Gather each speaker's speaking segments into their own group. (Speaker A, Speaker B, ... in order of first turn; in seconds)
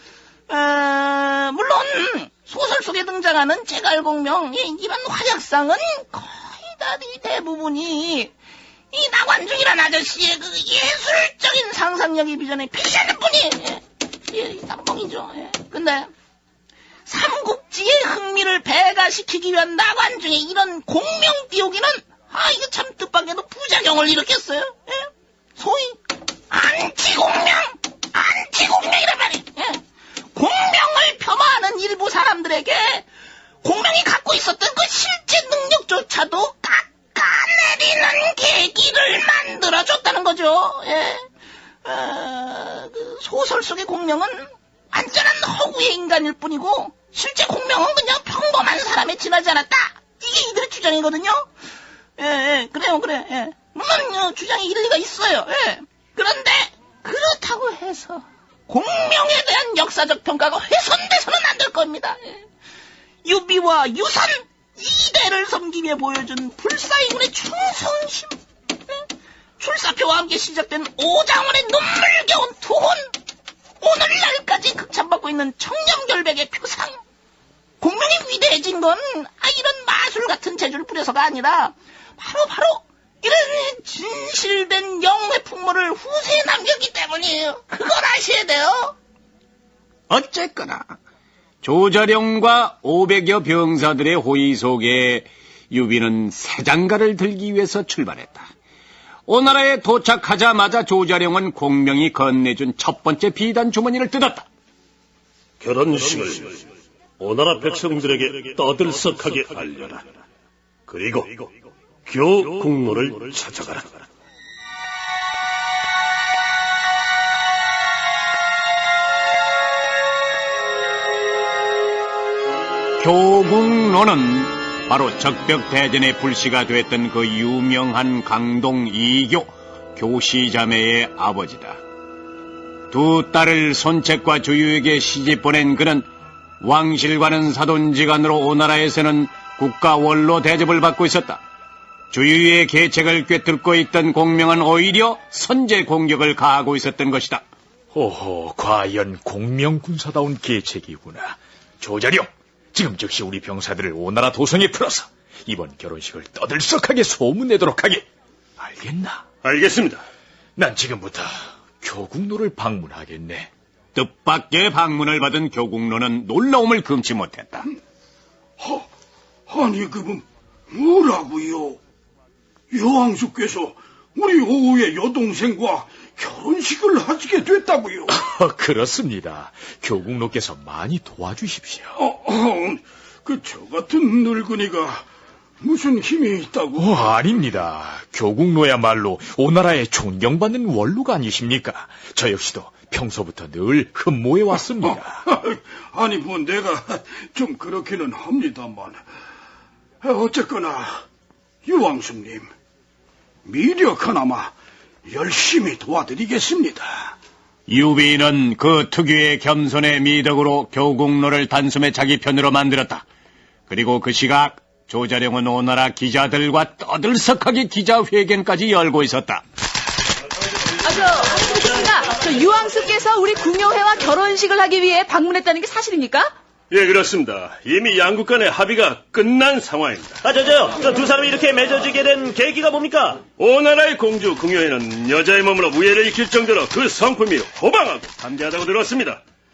Speaker A: 0.5-8.3, 8.9-16.1, 17.1-33.0, 33.6-41.2, 41.8-51.4, 52.2-62.5, 63.2-69.0, 69.6-73.1, 73.8-77.0, 77.8-89.0
Speaker B: 90.1-90.9, 91.6-98.5, 99.3-104.5, 123.0-131.8, 132.9-136.1, 136.6-141.4, 142.1-147.4, 163.9-167.7, 207.7-213.0, 213.7-219.4
Speaker C: 105.6-106.6, 107.2-110.0, 110.9-111.5, 112.0-114.0, 159.4-160.0, 226.7-230.2, 233.3-239.2
Speaker D: 147.9-158.0, 158.6-159.2, 160.6-163.5, 178.1-181.9, 186.8-195.2
Speaker E: 168.6-168.8, 169.5-171.8, 172.7-178.2, 182.0-185.0, 185.6-187.0, 194.8-199.0, 200.0-201.0, 201.6-202.5, 203.4-204.5, 205.1-207.1
Speaker F: 220.8-226.3
Speaker G: 230.2-233.2